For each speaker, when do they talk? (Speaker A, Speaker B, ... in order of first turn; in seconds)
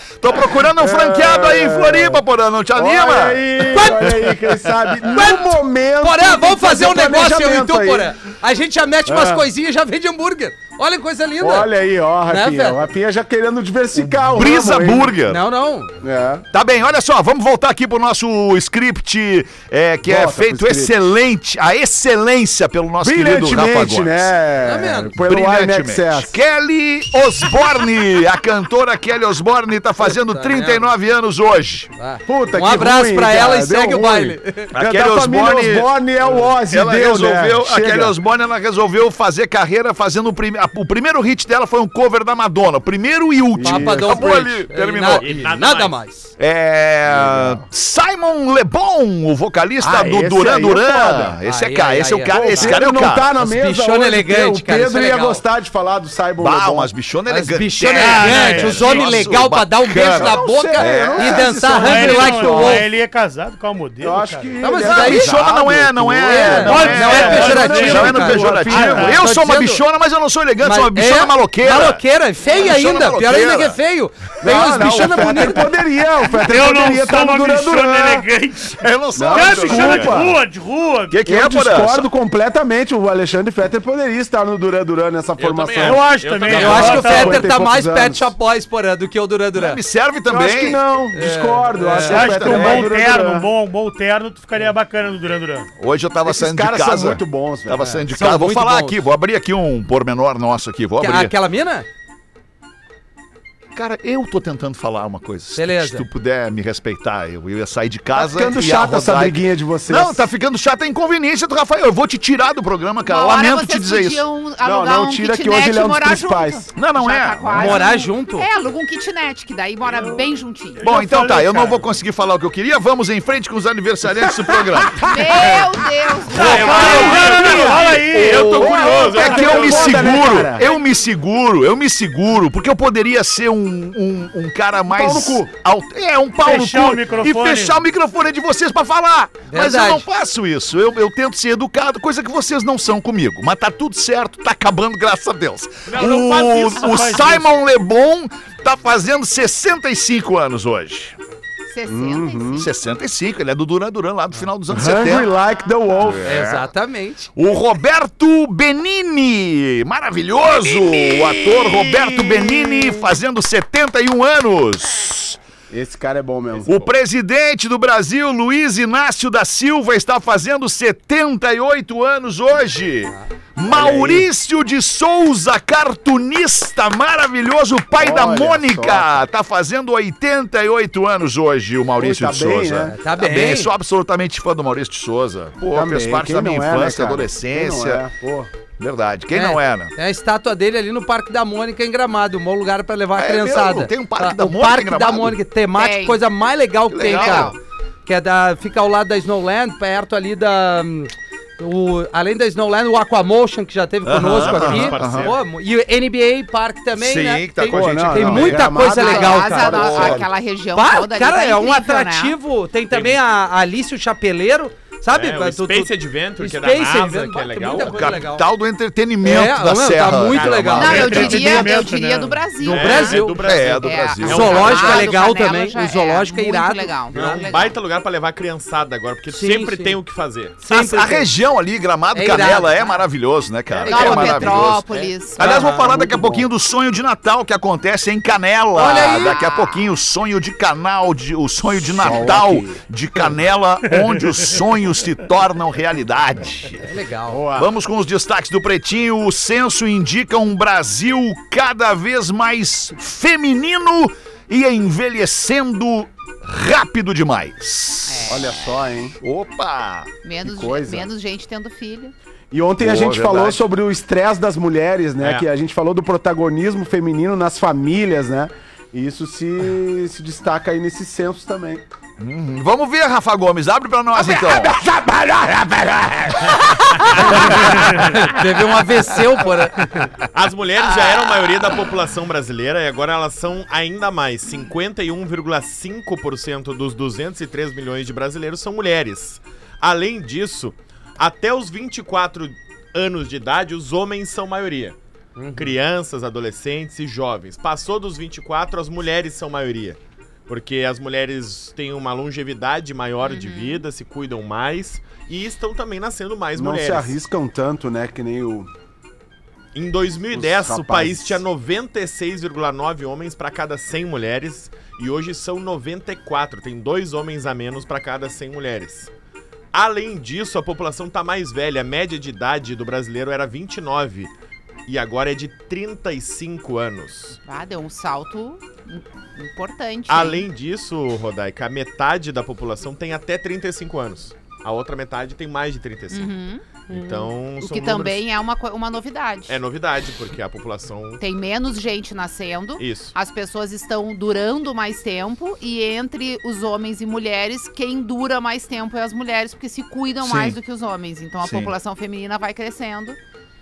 Speaker A: 0.2-4.3, 4.9-5.3, 14.1-15.4, 16.5-24.3, 25.2-31.9, 34.7-45.3, 46.4-53.3, 56.4-62.8, 64.7-73.8, 74.5-75.6, 78.7-80.3, 81.1-82.1, 89.5-90.8, 91.9-93.0, 95.8-101.3, 103.8-114.3, 116.7-117.8, 120.8-125.6, 126.4-151.2, 152.6-155.3, 156.0-156.7, 157.4-165.4, 166.7-188.0, 188.8-189.9, 193.2-195.4, 196.9-197.5, 204.0-205.3, 206.9-208.9, 209.6-210.2, 217.8-221.7, 223.4-225.2, 230.7-234.8, 235.4-246.9, 247.6-258.3, 259.2-260.1, 262.8-263.6, 272.2-274.8, 350.2-350.6, 351.4-351.7
Speaker B: 0.8-2.2, 2.8-8.1, 9.1-9.5, 11.4-15.2, 16.0-16.4, 20.0-20.9, 23.0-26.4, 32.3-38.1, 43.5-44.3, 47.1-47.6, 49.8-51.4, 52.3-56.9, 60.0-62.8, 64.0-69.2, 74.4-78.3, 79.1-80.4, 81.3-86.1, 86.6-88.3, 90.3-93.5, 96.2-98.0, 108.2-110.3, 114.6-116.7, 124.2-125.6, 127.2-127.7, 128.5-130.7, 134.9-135.5, 151.9-152.7, 154.7-156.2, 165.7-166.8, 173.7-174.3, 178.0-179.3, 182.0-182.9, 185.7-188.5, 207.7-210.3, 235.6-236.5, 241.8-242.8, 247.3-247.7, 258.3-259.1, 260.4-261.1, 262.5-271.9, 274.1-276.6, 277.1-277.9, 306.6-308.7, 310.3-311.4
Speaker C: 3.7-4.3, 5.1-11.7, 12.3-12.8, 15.3-15.9, 24.6-25.1, 30.1-30.9, 32.0-34.7, 43.6-46.3, 51.5-55.4, 57.3-62.8, 64.6-65.4, 66.2-69.8, 70.6-75.7, 86.5-89.8, 91.1-92.4, 98.1-99.0, 101.0-101.9, 105.6-106.1, 117.5-118.5, 139.5-140.1, 156.2-157.3, 182.9-183.7, 189.3-197.6, 198.1-210.0, 210.7-218.5, 219.2-221.6, 222.6-223.4, 224.2-227.4, 229.3-230.0, 230.6-231.3, 232.1-233.0, 233.9-234.6, 235.4-235.9, 238.7-239.4, 246.8-247.4, 277.1-279.9, 295.4-295.7
Speaker D: 45.2-46.0, 85.4-87.1, 126.3-130.5, 145.9-147.4, 166.6-166.8, 204.2-205.4, 212.9-213.2, 215.1-218.2, 220.3-221.2, 222.7-225.3, 227.1-230.6, 233.7-234.6, 265.2-265.5, 280.2-295.0, 295.6-307.2, 309.7-319.1, 319.7-324.3, 324.9-327.4, 330.1-336.3, 336.9-338.2, 339.5-341.2, 342.8-343.1
Speaker E: 57.9-59.2, 61.7-64.7, 66.6-69.3, 76.4-81.2, 85.8-87.5, 92.1-95.7, 119.9-120.2, 120.8-121.9, 126.4-130.4, 136.4-137.9, 146.8-147.5, 220.9-222.5
Speaker F: 72.4-72.7, 113.0-120.9, 125.0-127.2, 151.7-152.7, 195.7-196.2, 197.0-197.6, 208.9-212.3, 220.8-227.8, 233.9-235.6, 239.1-239.9, 258.1-258.8, 260.2-262.1, 303.2-303.8, 327.4-330.5, 336.1-339.6, 341.2-353.2